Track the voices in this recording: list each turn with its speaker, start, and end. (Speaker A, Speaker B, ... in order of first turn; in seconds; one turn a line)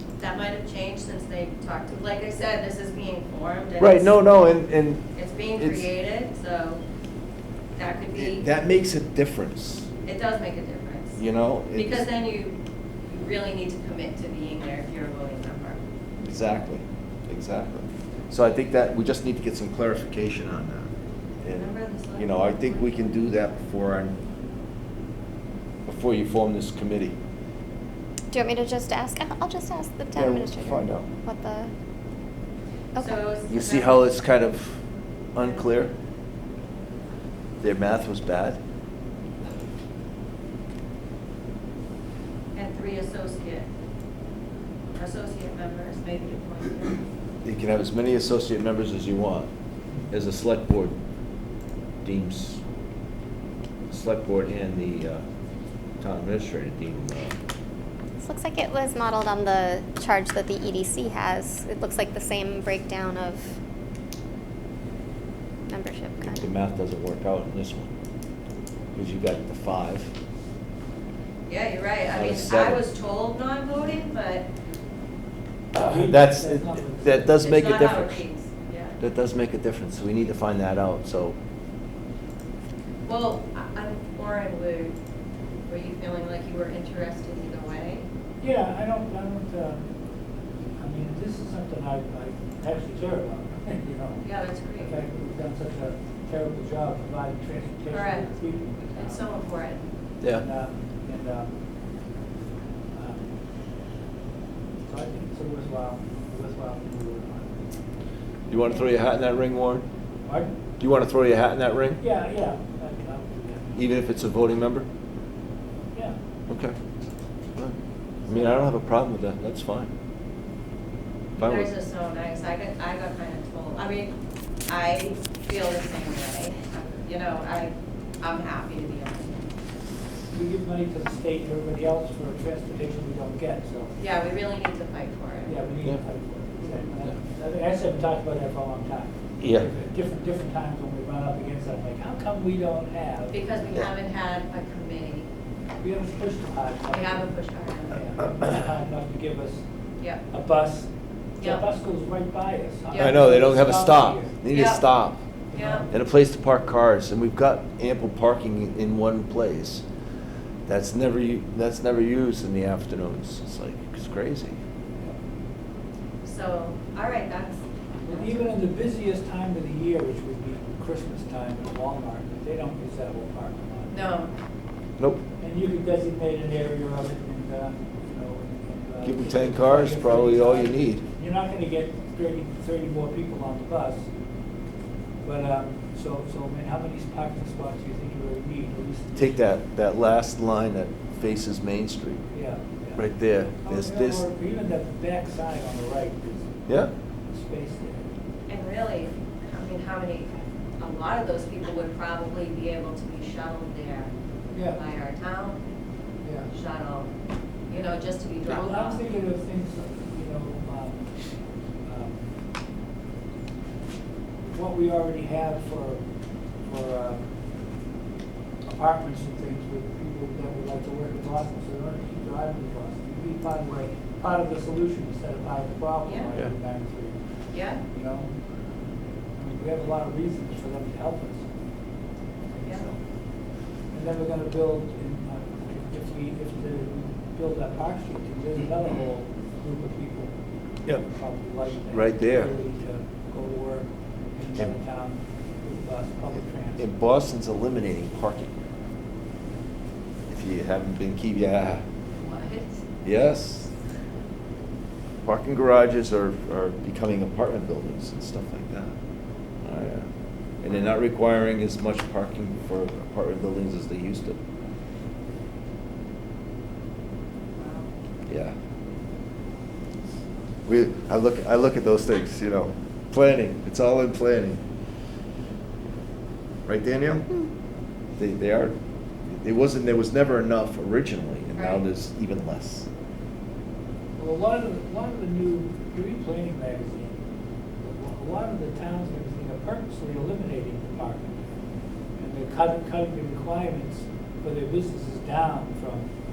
Speaker A: 0.2-4.2
Speaker B: 3.8-5.9
Speaker A: 5.1-6.8
Speaker A: 7.8-8.5
Speaker B: 8.2-9.9
Speaker A: 10.0-11.2
Speaker B: 11.2-12.1
Speaker A: 11.7-12.6
Speaker A: 13.1-15.8
Speaker B: 16.2-20.9
Speaker B: 21.4-24.2
Speaker A: 21.5-23.4
Speaker B: 25.9-27.1
Speaker C: 28.3-31.7
Speaker B: 30.2-31.0
Speaker A: 33.0-34.0
Speaker B: 33.5-34.8
Speaker B: 35.3-35.9
Speaker B: 37.6-38.6
Speaker A: 42.5-43.6
Speaker A: 44.9-47.0
Speaker B: 47.4-49.5
Speaker B: 50.1-50.9
Speaker B: 52.0-52.6
Speaker B: 53.9-55.2
Speaker B: 56.0-57.3
Speaker C: 58.2-63.5
Speaker C: 65.7-66.4
Speaker B: 66.2-67.9
Speaker B: 68.9-70.1
Speaker A: 71.5-74.5
Speaker B: 72.1-72.8
Speaker B: 75.7-78.2
Speaker D: 75.8-77.3
Speaker A: 77.4-79.0
Speaker B: 79.0-81.3
Speaker A: 83.0-84.9
Speaker A: 85.7-88.0
Speaker D: 88.4-89.8
Speaker D: 90.8-94.2
Speaker A: 94.2-94.9
Speaker D: 94.8-99.2
Speaker A: 97.9-98.3
Speaker A: 98.9-99.8
Speaker D: 100.3-101.5
Speaker D: 102.9-103.3
Speaker D: 104.8-107.6
Speaker B: 108.5-109.8
Speaker D: 110.2-110.5
Speaker B: 110.8-112.0
Speaker D: 112.0-113.8
Speaker B: 113.8-114.8
Speaker B: 116.5-116.7
Speaker B: 118.3-119.9
Speaker B: 121.4-121.7
Speaker A: 121.4-124.1
Speaker A: 124.7-129.4
Speaker D: 130.3-133.9
Speaker A: 134.0-135.6
Speaker D: 135.5-143.3
Speaker B: 139.4-139.7
Speaker A: 143.3-145.3
Speaker D: 145.8-147.3
Speaker A: 146.9-148.1
Speaker D: 147.9-149.6
Speaker D: 150.3-150.9
Speaker A: 151.4-151.6
Speaker D: 151.4-154.4
Speaker A: 152.9-153.3
Speaker B: 152.9-155.2
Speaker A: 154.5-154.9
Speaker D: 155.5-155.9
Speaker A: 155.5-155.8
Speaker B: 155.9-159.8
Speaker B: 160.7-164.6
Speaker A: 166.2-168.4
Speaker D: 168.1-174.1
Speaker A: 173.9-174.3
Speaker D: 175.4-184.1
Speaker B: 179.0-181.0
Speaker D: 185.2-189.4
Speaker B: 189.2-192.2
Speaker D: 192.3-196.6
Speaker B: 192.9-194.2
Speaker D: 197.3-198.1
Speaker A: 198.5-204.1
Speaker D: 204.5-204.8
Speaker A: 204.6-205.6
Speaker D: 206.2-206.5
Speaker A: 206.5-207.1
Speaker A: 207.7-209.0
Speaker D: 208.4-211.0
Speaker D: 211.8-212.3
Speaker D: 214.5-216.0
Speaker D: 216.6-217.2
Speaker D: 218.7-227.2
Speaker A: 227.5-227.8
Speaker D: 227.8-228.3
Speaker D: 229.3-231.4
Speaker D: 232.6-233.0
Speaker D: 233.9-240.3
Speaker D: 240.9-246.9
Speaker B: 241.9-242.5
Speaker B: 246.8-248.5
Speaker B: 250.3-251.8
Speaker A: 252.2-252.9
Speaker B: 253.0-253.7
Speaker B: 255.2-258.9
Speaker B: 259.6-260.1
Speaker B: 260.6-264.4
Speaker A: 260.6-261.0
Speaker A: 267.6-267.9
Speaker B: 268.3-268.5
Speaker B: 270.6-274.6
Speaker B: 276.6-277.3
Speaker B: 278.2-278.7
Speaker B: 279.4-282.9
Speaker A: 281.5-281.9
Speaker D: 284.2-287.2
Speaker D: 287.8-291.4
Speaker D: 292.2-296.1